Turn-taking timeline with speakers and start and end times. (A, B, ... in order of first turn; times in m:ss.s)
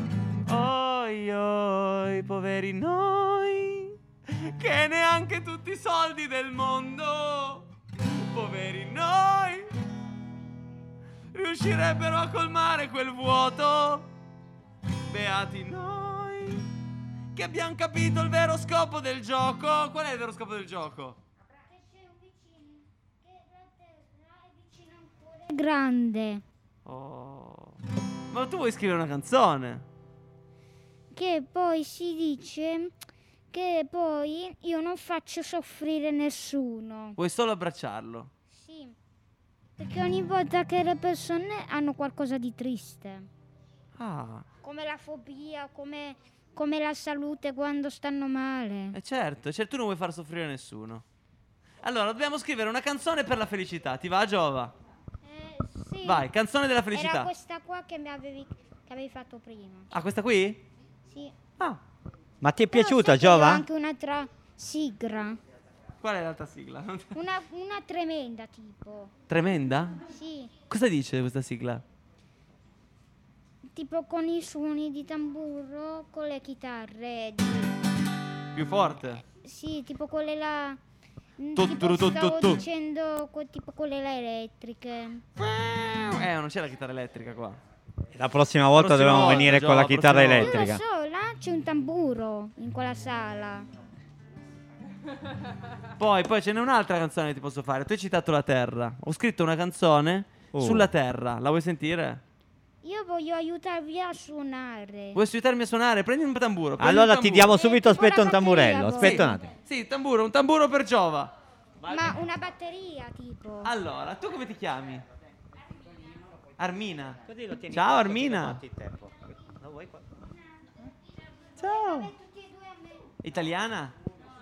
0:00.5-0:09.7 A
0:11.3-0:14.1 A
0:15.1-0:16.7 A
0:17.3-0:21.2 A
0:21.5-0:26.4 B
0:26.8-0:27.8 A
0:28.3-0:29.8 A
0:31.1-0:32.9 B
0:33.5-0:37.2 B
0:37.2-0:38.3 A
0:38.5-0:39.0 B
0:39.8-0:43.3 B
0:44.0-0:44.4 A
0:44.6-0:49.0 B
0:48.9-0:51.0 A
0:51.8-0:54.7 A
0:55.2-0:56.3 B
0:56.0-0:57.3 A
0:56.9-0:59.9 B
0:59.9-1:00.6 A
1:01.1-1:01.3 B
1:02.4-1:03.6 C
1:02.7-1:05.4 B
1:06.0-1:07.2 A
1:07.1-1:09.1 B
1:09.3-1:10.0 A
1:10.1-1:10.5 B
1:10.7-1:11.8 A
1:13.7-1:17.7 B
1:18.5-1:19.2 A
1:19.3-1:20.8 B
1:21.4-1:25.2 B
1:21.6-1:22.6 A
1:25.4-1:27.6 A
1:28.1-1:30.8 C
1:28.7-1:30.7 A
1:30.4-1:33.7 B
1:36.0-1:42.2 A
1:40.5-1:40.9 C
1:42.8-1:45.2 B
1:45.1-1:47.5 A
1:46.8-1:49.5 C
1:47.5-1:49.3 B
1:49.0-1:51.3 A
1:51.8-1:52.2 C
1:51.9-1:53.7 B
1:53.6-1:55.0 A
1:56.6-1:57.2 A
1:57.2-2:00.1 C
1:57.7-1:58.6 A
2:01.6-2:02.1 A
2:01.6-2:03.1 B
2:03.2-2:03.9 A